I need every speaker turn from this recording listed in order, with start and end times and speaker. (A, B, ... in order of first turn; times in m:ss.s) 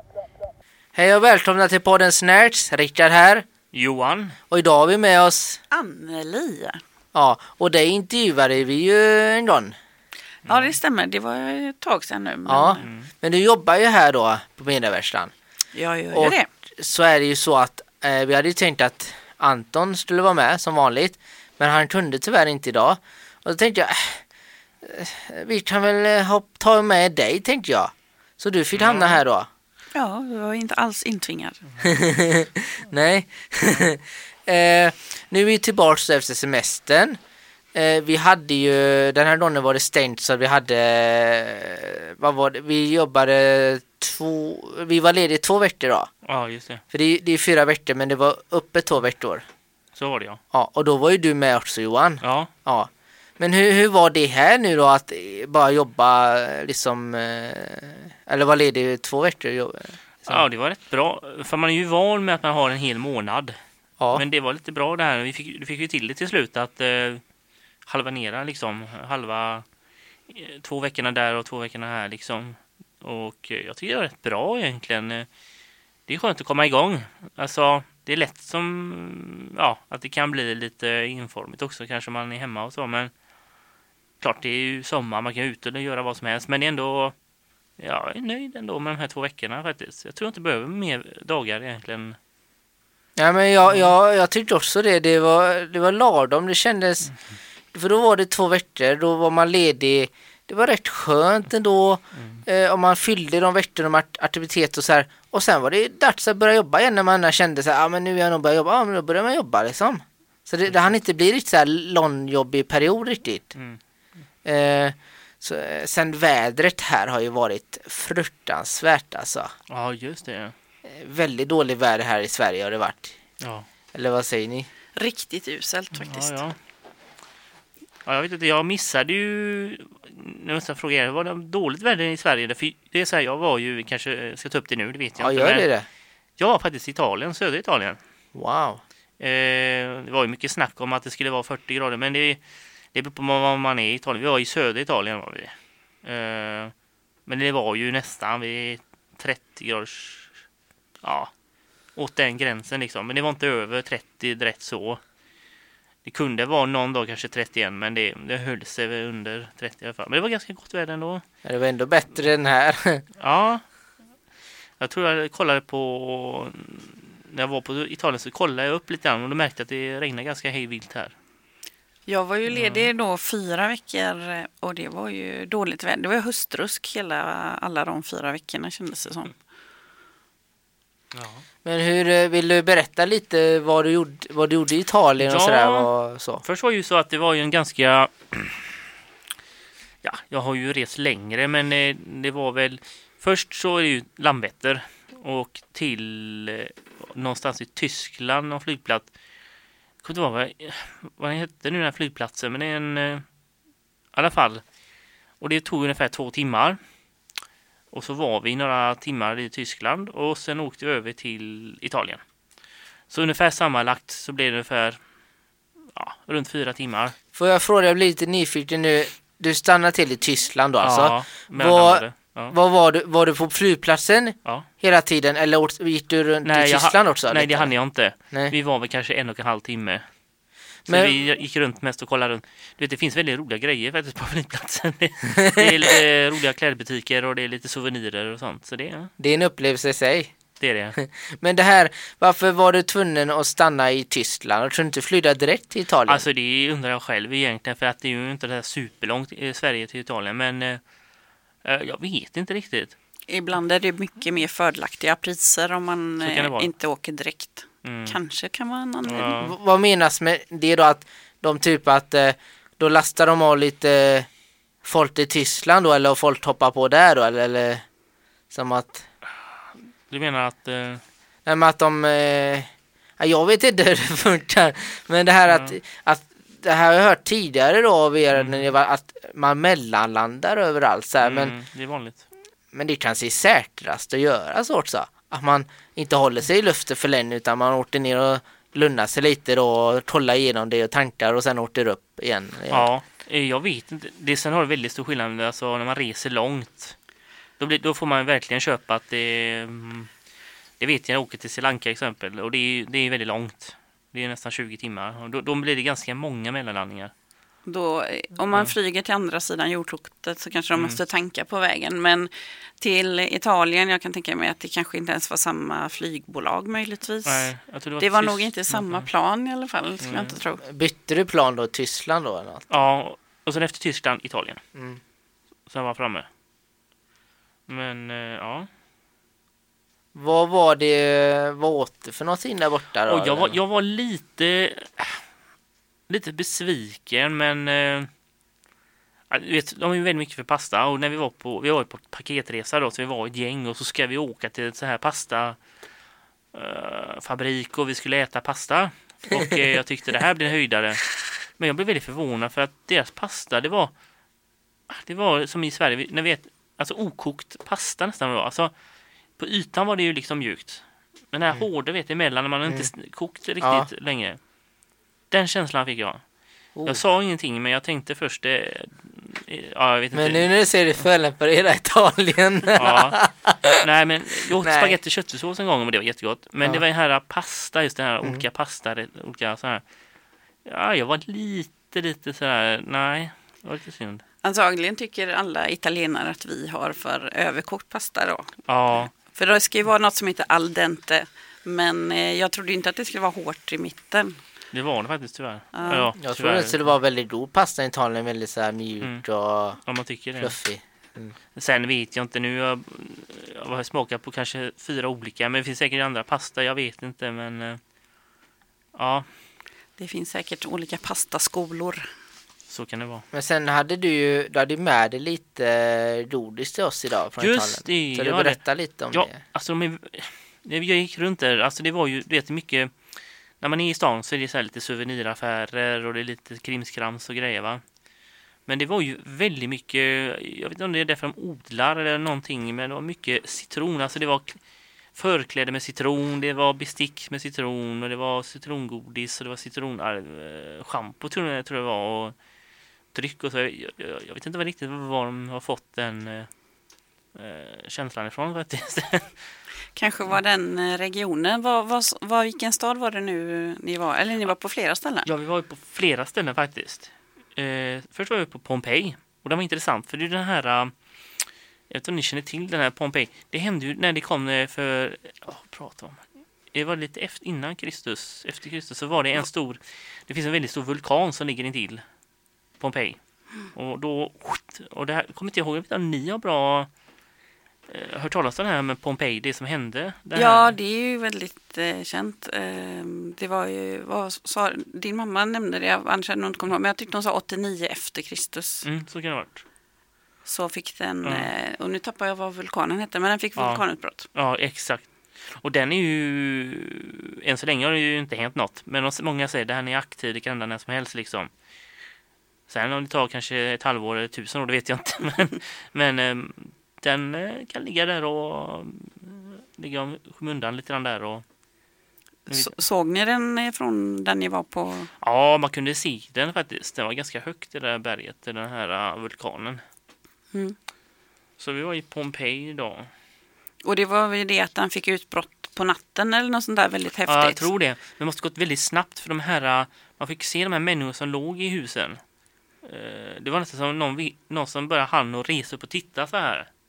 0:00.9-0:03.5 A
0:03.7-0:04.4 B
0:04.5-0:05.6 A
0:05.7-0:06.8 C
0:07.1-0:09.7 A
0:10.5-0:10.8 B
0:10.5-0:12.8 C
0:12.5-0:15.3 A
0:12.8-0:13.1 B
0:15.7-0:16.5 C
0:16.1-0:24.2 A
0:24.8-0:29.5 A
0:28.7-0:29.2 B
0:30.0-0:31.6 C
0:31.8-0:37.2 A
0:37.7-0:46.1 A
0:46.3-0:46.8 B
0:46.9-0:49.4 A
0:50.0-0:50.4 B
0:50.5-1:00.4 A
0:52.2-0:52.5 B
1:00.2-1:03.6 B
1:04.0-1:04.2 A
1:04.1-1:07.2 B
1:07.9-1:09.6 B
1:10.3-1:15.3 B
1:16.1-1:23.1 B
1:24.2-1:27.2 B
1:27.8-1:32.2 B
1:33.2-1:37.1 A
1:37.7-1:53.5 A
1:54.4-1:59.5 A
1:59.7-2:00.5 B
2:00.8-2:03.2 A
2:03.4-2:03.7 B
2:03.9-2:04.7 A
2:05.0-2:06.4 C
2:06.0-2:06.6 B
2:08.1-2:15.7 B
2:15.2-2:15.9 A
2:16.4-2:18.0 B
2:18.4-2:18.8 A
2:19.2-2:22.4 B
2:22.9-2:25.5 B
2:26.0-2:26.7 B
2:27.3-2:30.3 B
2:31.0-2:31.3 B
2:32.0-2:35.0 B
2:36.0-2:41.2 B
2:41.4-2:43.0 A
2:43.2-2:43.6 B
2:44.8-2:51.1 B
2:52.1-2:59.3 C
2:52.5-2:52.9 B
3:01.1-3:01.4 B
3:01.6-3:06.4 A
3:05.2-3:05.9 B
3:06.4-3:08.7 B
3:10.0-3:19.1 B
3:20.0-3:23.2 B
3:24.1-3:24.6 B
3:25.4-3:26.8 B
3:27.9-3:32.2 B
3:33.1-3:35.0 B
3:35.9-3:37.2 B
3:37.3-3:47.7 A
3:40.8-3:42.5 B
3:46.4-3:50.1 B
3:50.9-3:59.1 B
3:50.9-3:51.2 A
3:55.4-3:56.0 A
3:59.2-4:00.4 A
4:00.6-4:01.0 B
4:01.0-4:06.2 A
4:06.1-4:10.8 B
4:11.6-4:13.0 B
4:13.3-4:19.4 C
4:16.2-4:16.7 B
4:17.8-4:18.2 B
4:19.0-4:19.5 B
4:19.4-4:24.3 A
4:24.8-4:27.8 A
4:28.5-4:29.1 A
4:30.1-4:31.0 B
4:31.5-4:41.5 A
4:35.5-4:35.7 B
4:38.4-4:38.7 B
4:41.2-4:42.2 B
4:42.7-4:52.9 A
4:52.7-4:57.0 B
4:57.6-5:00.1 B
5:00.8-5:07.1 B
5:07.7-5:20.6 C
5:17.2-5:19.1 B
5:20.0-5:20.4 B
5:20.6-5:22.7 A
5:22.7-5:24.6 B
5:24.8-5:25.0 A
5:25.7-5:26.3 B
5:27.7-5:28.7 B
5:30.1-5:33.6 A
5:33.1-5:35.2 B
5:36.1-5:38.1 B
5:39.3-5:45.6 B
5:46.5-5:51.1 B
5:51.6-5:53.9 B
5:54.9-5:58.7 B
5:59.4-6:04.4 B
6:03.6-6:03.9 A
6:05.3-6:06.2 B
6:06.8-6:07.0 A
6:06.8-6:10.5 B
6:10.1-6:13.8 A
6:12.7-6:13.2 B
6:13.8-6:19.8 B
6:14.5-6:15.0 A
6:20.6-6:24.2 B
6:24.4-6:28.5 C
6:28.7-6:29.1 B
6:29.1-6:34.4 C
6:34.7-6:36.8 B
6:35.7-6:36.1 C
6:36.2-6:39.8 A
6:39.8-6:40.6 B
6:40.4-6:41.4 A
6:41.6-6:47.8 B
6:49.0-6:49.3 B
6:50.0-6:52.1 C
6:52.7-6:53.2 B
6:53.3-6:59.4 A
6:57.4-6:58.6 B
6:59.1-7:02.9 B
7:03.6-7:07.8 B
7:08.7-7:14.6 B
7:15.2-7:22.4 B
7:23.1-7:26.5 B
7:27.4-7:29.4 B
7:30.0-7:35.3 C
7:35.3-7:40.9 B
7:41.9-7:46.2 B
7:46.7-7:52.0 B
7:52.8-7:53.2 B
7:53.7-7:56.9 B
7:57.9-8:00.8 B
8:00.4-8:08.9 C
8:08.8-8:09.6 B
8:10.4-8:14.3 C
8:13.6-8:21.5 B
8:22.7-8:31.4 B
8:32.5-8:35.1 C
8:32.5-8:32.7 B
8:35.2-8:39.8 B
8:41.6-8:43.1 B
8:43.8-8:47.7 C
8:47.3-8:52.2 B
8:52.8-8:56.7 B